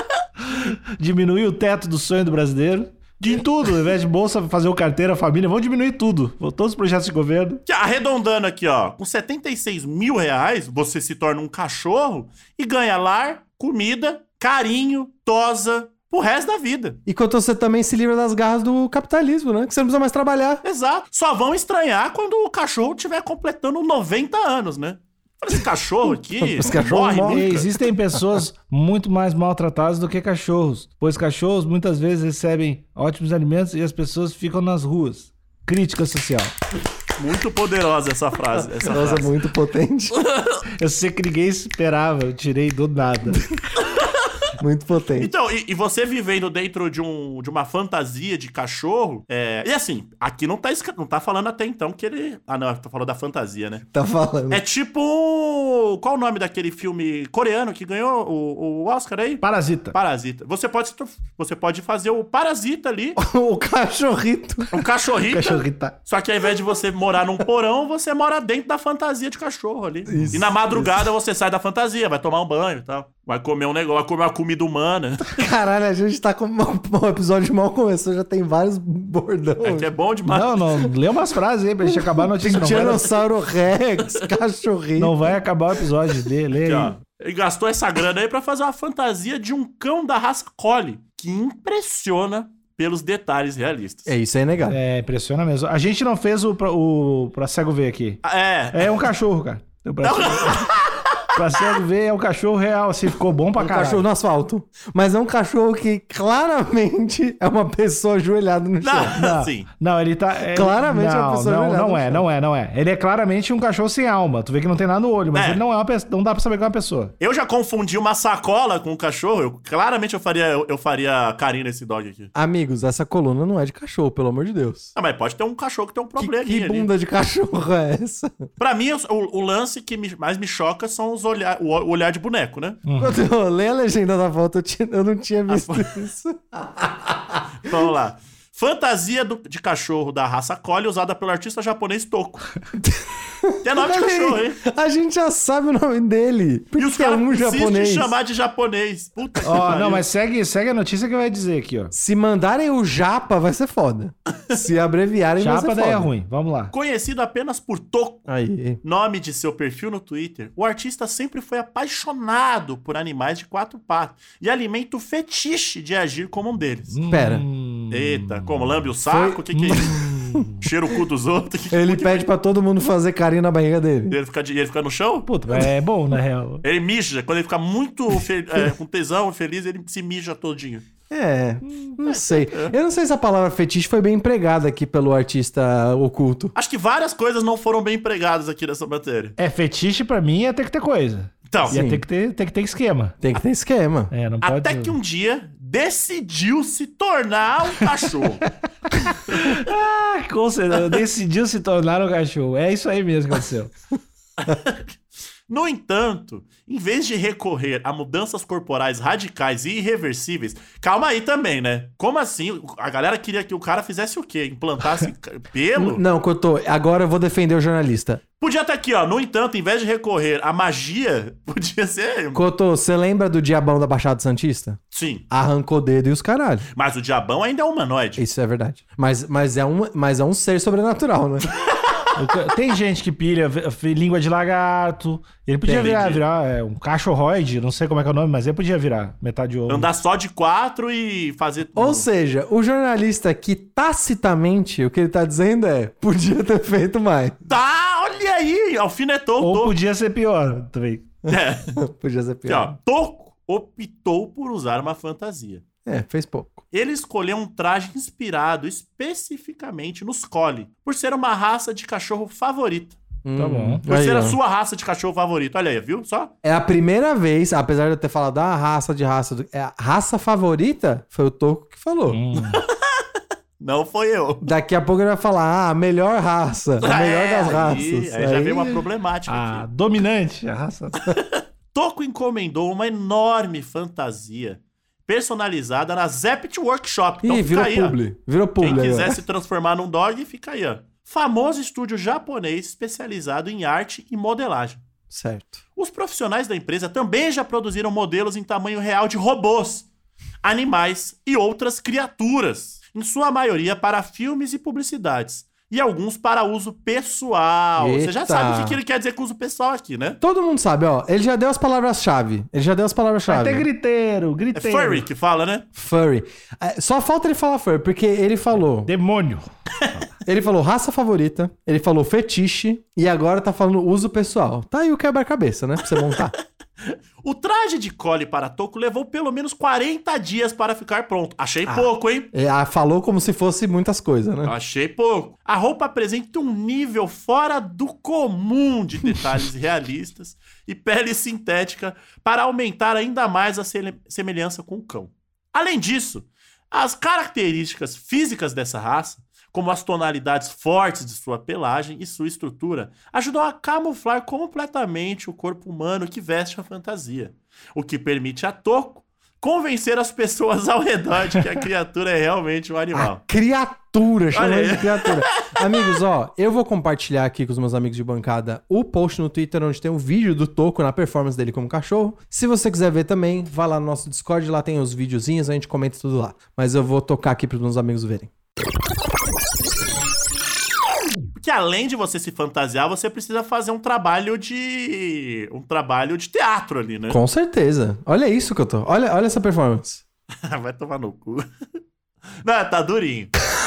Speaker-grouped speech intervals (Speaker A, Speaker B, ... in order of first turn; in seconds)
Speaker A: 0.5-7.6, 27.3-36.5, 40.8-43.4, 59.4-60.0, 65.3-66.0, 80.3-83.1, 85.0-87.0, 94.7-98.2, 98.7-100.7, 101.3-104.0, 109.2-117.1, 132.9-133.2, 149.4-151.9, 155.4-156.7, 166.9-168.5, 169.6-170.6, 175.2-176.6, 189.4-193.2, 194.1-194.9, 198.9-203.7, 232.2-239.9, 249.4-251.1, 263.4-263.8, 272.1-272.6, 279.3-281.1, 313.3-315.1, 318.9-319.5
Speaker B: 7.7-17.0, 20.6-27.7, 37.2-39.3, 40.1-40.6, 43.8-44.1, 45.2-53.9, 54.5-63.2, 64.7-75.3, 79.6-80.6, 86.7-94.1, 98.2-98.9, 100.0-101.3, 108.8-109.7, 115.3-115.6, 117.2-122.3, 125.0-126.9, 128.6-132.8, 135.5-136.0, 137.6-142.5, 143.6-144.6, 146.8-150.1, 156.7-158.3, 158.8-167.0, 167.9-172.2, 174.1-175.3, 176.6-180.9, 182.1-182.7, 186.6-189.4, 191.5-191.8, 194.4-198.4, 204.4-204.9, 205.5-216.0, 218.4-222.4, 224.9-225.2, 226.8-228.2, 235.7-236.2, 239.7-242.1, 247.5-249.7, 251.3-251.8, 252.5-255.6, 256.7-263.0, 263.9-266.3, 273.6-274.5, 276.8-279.7, 281.1-288.0, 288.6-294.8, 295.8-299.9, 300.4-310.2, 314.6-315.7, 326.9-332.3, 334.4-363.2, 364.3-365.8, 381.4-387.2, 390.4-391.5, 392.4-393.3
Speaker C: 17.1-20.6, 26.4-27.5, 38.9-40.2, 44.6-45.3, 53.9-54.6, 63.2-64.7, 70.1-71.1, 75.3-79.9, 81.8-85.3, 94.1-94.8, 103.6-109.2, 110.5-112.3, 122.3-124.9, 126.2-128.5, 133.0-137.9, 142.8-148.2, 151.9-156.1, 158.3-158.8, 167.1-167.4, 169.1-170.4, 171.7-174.2, 181.1-186.5, 191.7-192.0, 193.2-194.1, 215.8-218.2, 222.3-224.8, 225.3-226.7, 228.2-231.5, 241.8-247.4, 251.3-252.8, 255.8-256.6, 263.2-264.4, 266.4-272.2, 274.4-278.8, 287.2-289.2, 295.1-295.6, 307.8-308.8, 310.2-313.7, 315.8-318.9, 320.3-326.3, 331.7-334.5, 362.9-378.3, 387.1-390.0